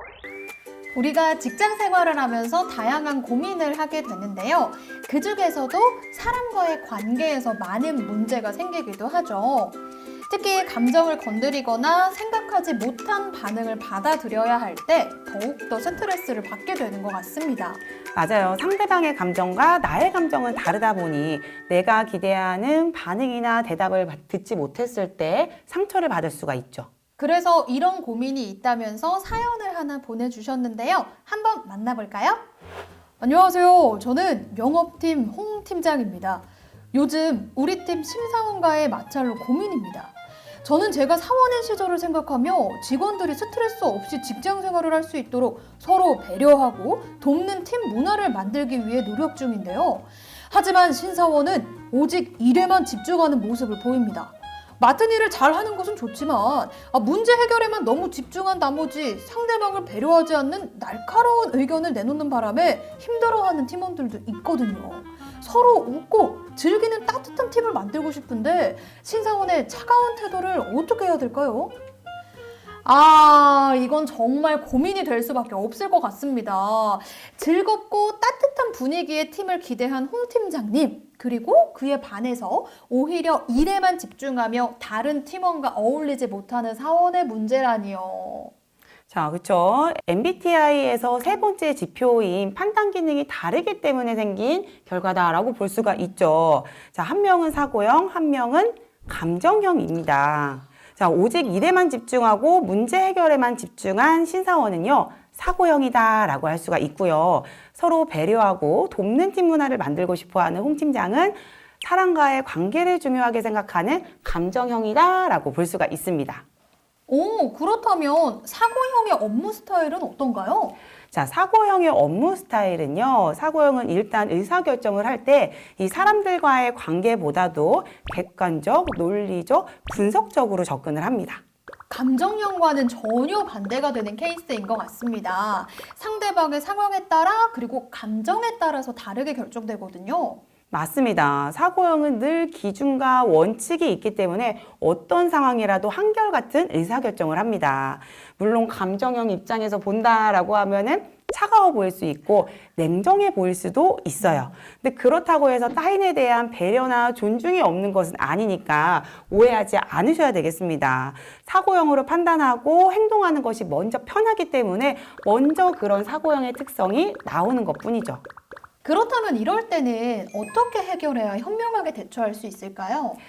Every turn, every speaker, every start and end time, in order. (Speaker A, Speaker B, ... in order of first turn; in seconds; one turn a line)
Speaker A: 0.9-17.8
Speaker B: 18.1-26.9
Speaker A: 27.2-32.4
Speaker A: 33.2-71.8
Speaker A: 72.8-88.5
Speaker B: 89.1-116.4
Speaker A: 117.1-120.8
Speaker B: 121.1-131.4
Speaker A: 131.9-140.4
Speaker B: 140.7-168.2
Speaker A: 168.8-173.2